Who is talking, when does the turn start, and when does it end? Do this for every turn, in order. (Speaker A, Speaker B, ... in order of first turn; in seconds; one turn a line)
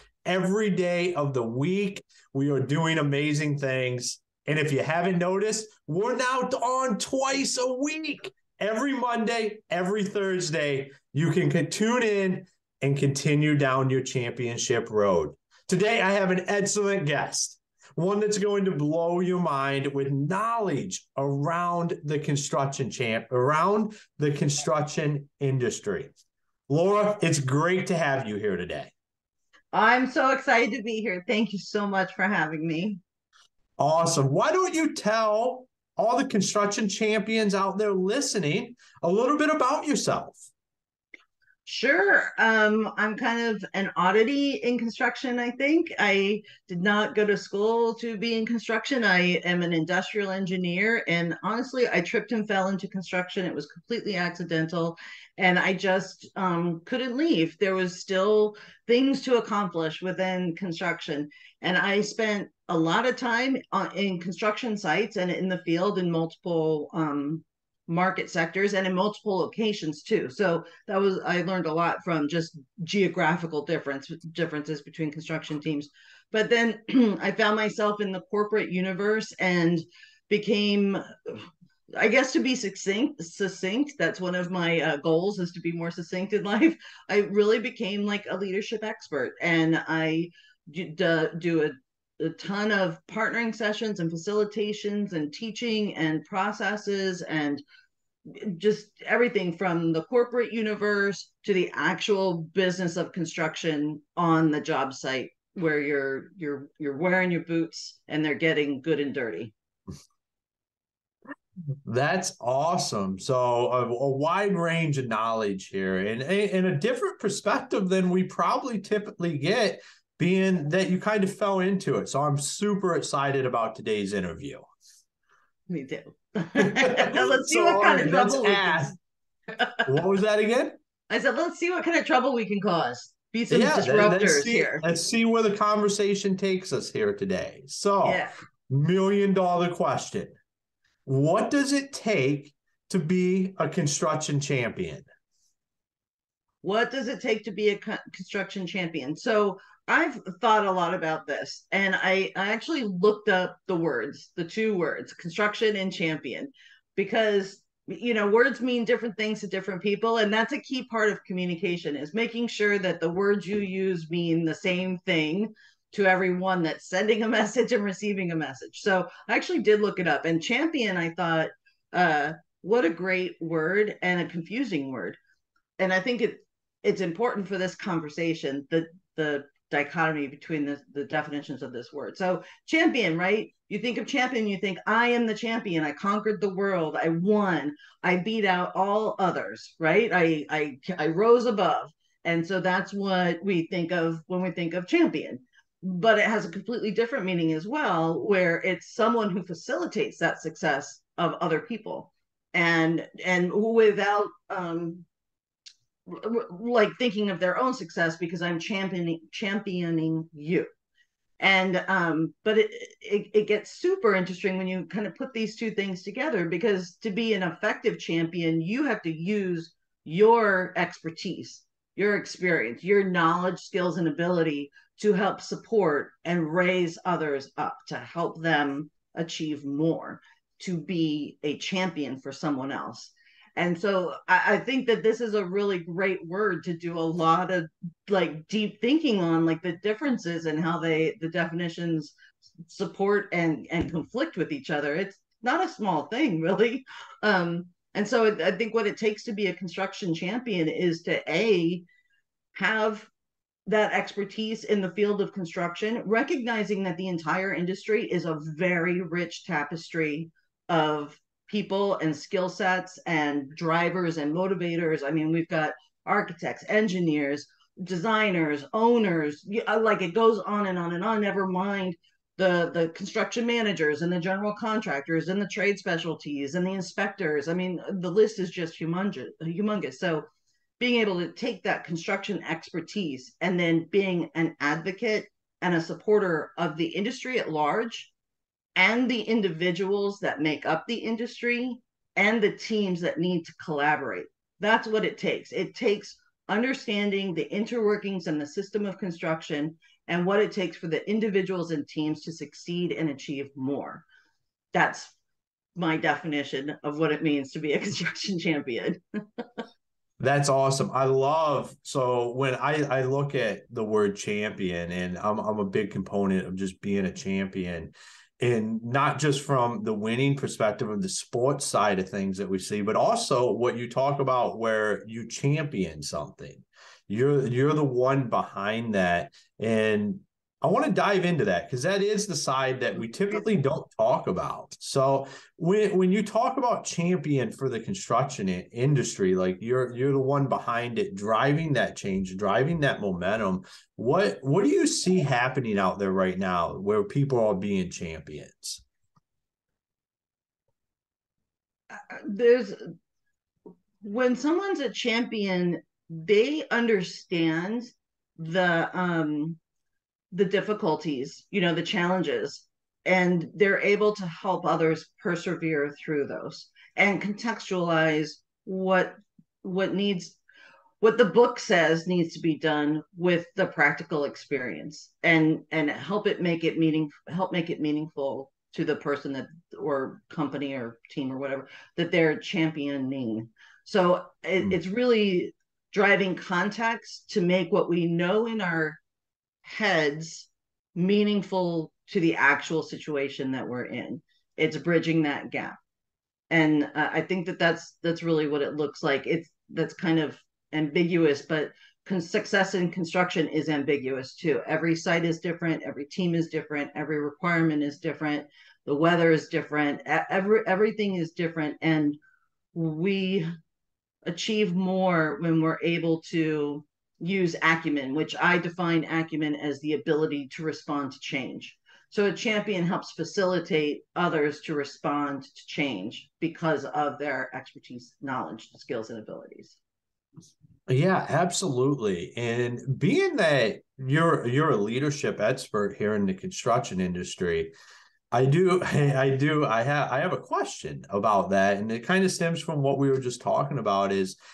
Speaker A: 0.2-26.1
Speaker A: 26.7-28.9
Speaker B: 29.7-33.0
Speaker A: 33.8-40.5
Speaker B: 41.6-97.6
Speaker B: 98.3-109.5
Speaker A: 111.8-124.6
Speaker B: 125.7-128.9
Speaker A: 126.6-128.9
Speaker B: 129.5-129.8
Speaker A: 129.8-130.8
Speaker B: 131.1-134.8
Speaker A: 133.5-140.3
Speaker B: 138.0-138.3
Speaker A: 141.1-145.0
Speaker B: 146.6-175.2
Speaker B: 175.8-205.0
Speaker B: 206.1-210.7
Speaker B: 211.4-242.1
Speaker B: 242.7-251.8
Speaker B: 252.5-253.1
Speaker B: 253.7-280.3
Speaker B: 280.8-288.1
Speaker B: 288.8-304.0
Speaker B: 304.7-305.1
Speaker B: 305.8-309.4
Speaker A: 310.2-348.8
Speaker B: 351.9-352.9
Speaker B: 354.0-359.6
Speaker B: 360.3-370.4
Speaker B: 371.0-389.0
Speaker B: 389.6-395.8
Speaker B: 396.5-412.2
Speaker B: 412.7-413.5
Speaker B: 414.2-429.8
Speaker A: 430.9-437.7
Speaker A: 438.3-444.4